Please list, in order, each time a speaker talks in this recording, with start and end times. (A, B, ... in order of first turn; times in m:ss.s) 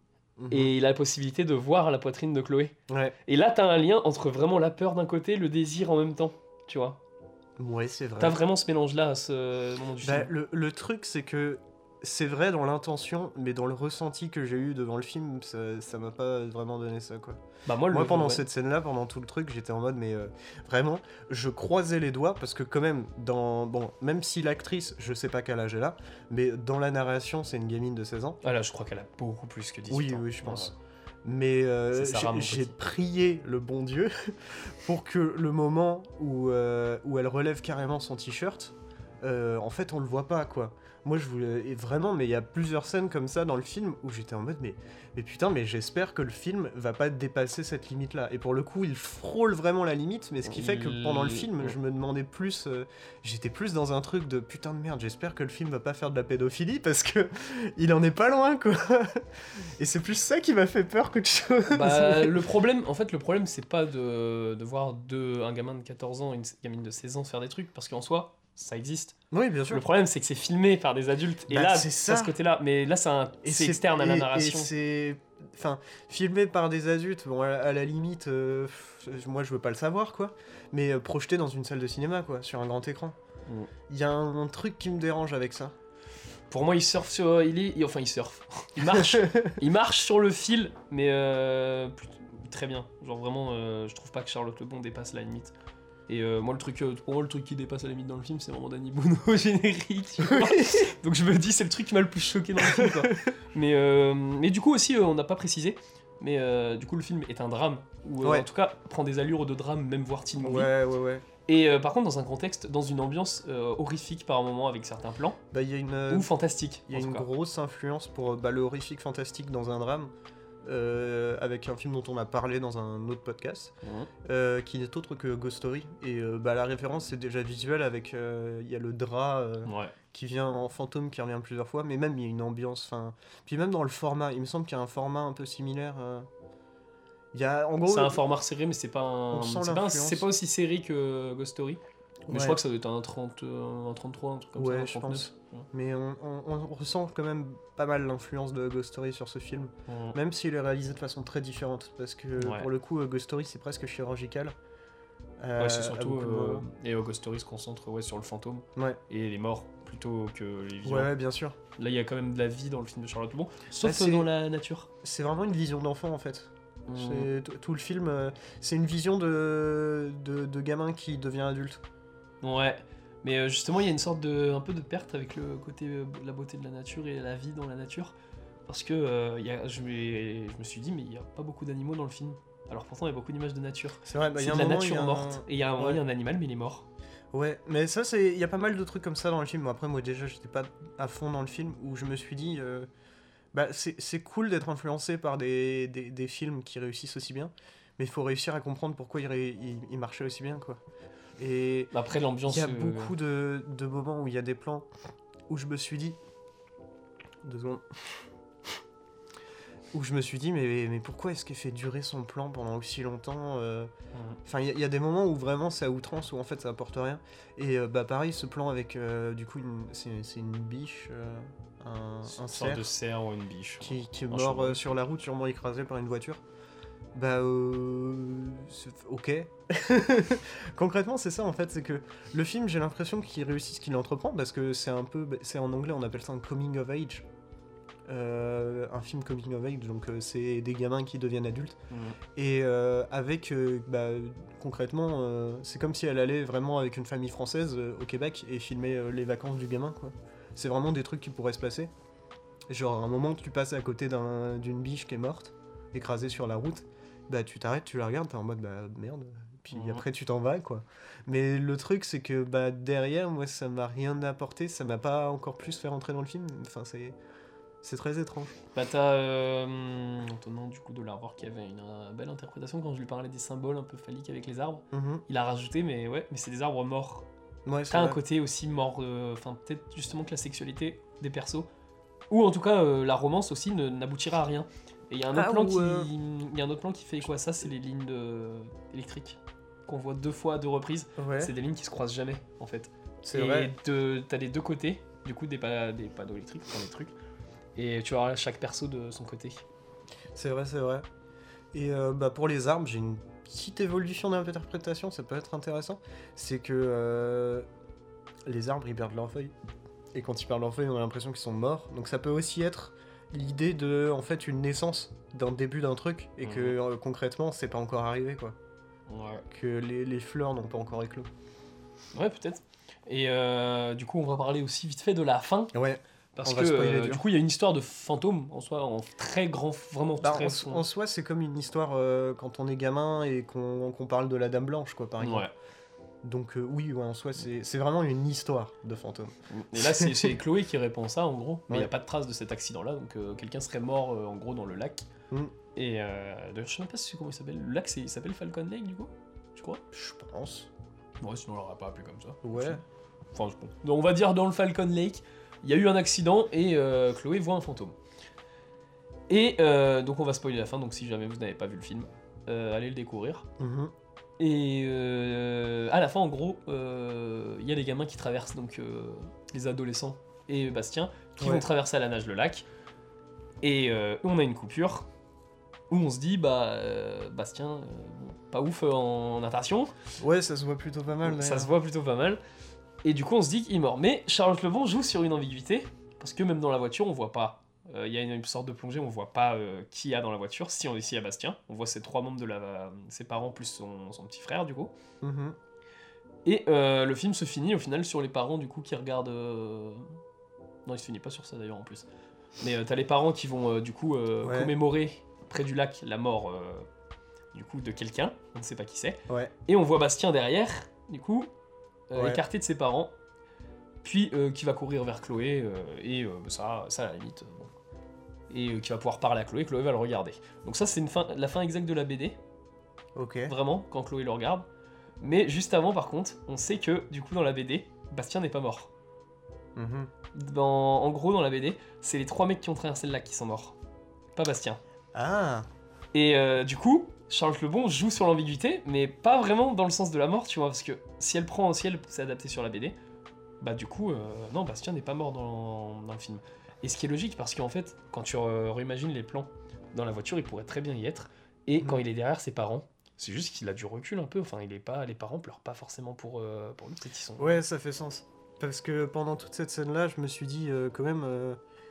0:00.4-0:00.7 A
0:00.5-0:02.8 B
0:02.9-0:03.2 A
0:03.2-0:07.0 B
0:07.6-0:08.4 A
0:08.2-0:10.3 B
0:10.0-0:28.4 A
0:17.7-0:18.5 B
0:28.4-0:30.7 B
0:29.9-1:02.4 A
0:31.9-0:32.7 B
0:50.4-0:51.8 B
1:01.7-1:09.2 B
1:09.3-1:09.8 A
1:09.7-1:14.7 B
1:11.5-1:12.4 A
1:13.4-1:23.2 A
1:23.9-1:25.8 A
1:26.5-1:35.5 B
1:28.8-1:29.6 A
1:36.1-1:50.7 B
1:40.2-1:40.9 A
1:42.6-1:43.2 A
1:50.4-1:51.2 A
1:51.5-1:55.4 B
1:55.5-1:56.3 A
1:56.1-1:57.3 B
1:56.9-2:00.1 A
2:00.6-2:16.3 A
2:03.8-2:04.1 B
2:09.6-2:10.0 B
2:17.3-2:18.2 A
2:17.9-2:25.7 B
2:19.3-2:20.3 A
2:22.3-2:22.6 A
2:24.6-2:34.6 A
2:29.9-2:30.2 B
2:32.4-2:32.7 B
2:35.4-2:36.6 A
2:35.6-2:41.1 B
2:40.8-2:41.6 A
2:41.8-2:44.9 B
2:43.8-2:44.3 A
2:45.0-2:51.8 A
2:46.9-2:47.3 B
2:52.4-2:58.1 B
2:58.7-3:06.9 B
3:04.1-3:06.0 A
3:07.3-3:12.9 A
3:13.5-3:20.8 A
3:21.4-3:21.9 A
3:21.9-3:23.1 B
3:22.5-3:24.9 A
3:25.5-3:26.2 A
3:27.4-3:28.2 A
3:29.9-3:33.9 A
3:34.1-3:34.4 B
3:34.4-3:42.9 A
3:42.2-3:45.0 B
3:43.8-3:46.4 A
3:47.1-3:57.3 A
3:58.1-4:01.8 A
4:01.9-4:02.2 B
4:02.4-4:11.9 A
4:12.7-4:27.2 A
4:19.7-4:20.0 B
4:27.8-4:28.6 A
4:28.8-4:37.3 B
4:34.9-4:35.2 A
4:37.6-4:38.2 A
4:37.9-4:41.7 B
4:42.3-4:57.1 B
4:45.3-4:46.1 A
4:51.2-4:51.5 A
4:53.2-4:53.7 A
4:57.8-4:59.6 B
5:00.3-5:01.1 A
5:01.7-5:07.7 A
5:08.4-5:09.5 A
5:10.1-5:18.6 A
5:16.4-5:16.8 B
5:19.1-5:19.4 B
5:19.5-5:21.3 A
5:22.1-5:25.7 B
5:25.7-5:27.2 A
5:26.4-5:30.8 B
5:30.2-5:35.5 A
5:35.2-5:35.5 B
5:36.2-5:40.4 A
5:39.5-5:45.1 B
5:45.8-5:49.8 B
5:49.9-5:50.7 A
5:51.2-5:52.8 B
5:52.4-5:52.8 A
5:53.3-5:58.0 B
5:59.3-6:03.5 B
6:03.6-6:03.9 A
6:04.4-6:12.6 B
6:11.4-6:11.6 A
6:13.6-6:15.1 B
6:15.9-6:19.9 B
6:20.2-6:21.7 A
6:21.2-6:22.4 B
6:23.0-6:34.9 B
6:35.2-6:35.6 A
6:36.4-6:40.1 B
6:40.9-6:42.1 B
6:42.6-6:46.9 B
6:44.4-6:44.7 A
6:47.5-6:51.5 B
6:52.1-6:53.1 B
6:52.2-6:52.4 A
6:54.0-6:57.7 B
6:58.5-7:02.4 B
7:03.1-7:03.5 A
7:03.5-7:04.6 B
7:05.2-7:08.9 B
7:09.8-7:10.1 A
7:10.3-7:13.8 B
7:14.4-7:14.8 B
7:15.1-7:15.7 A
7:16.1-7:23.0 B
7:23.6-7:37.6 B
7:37.4-7:41.6 A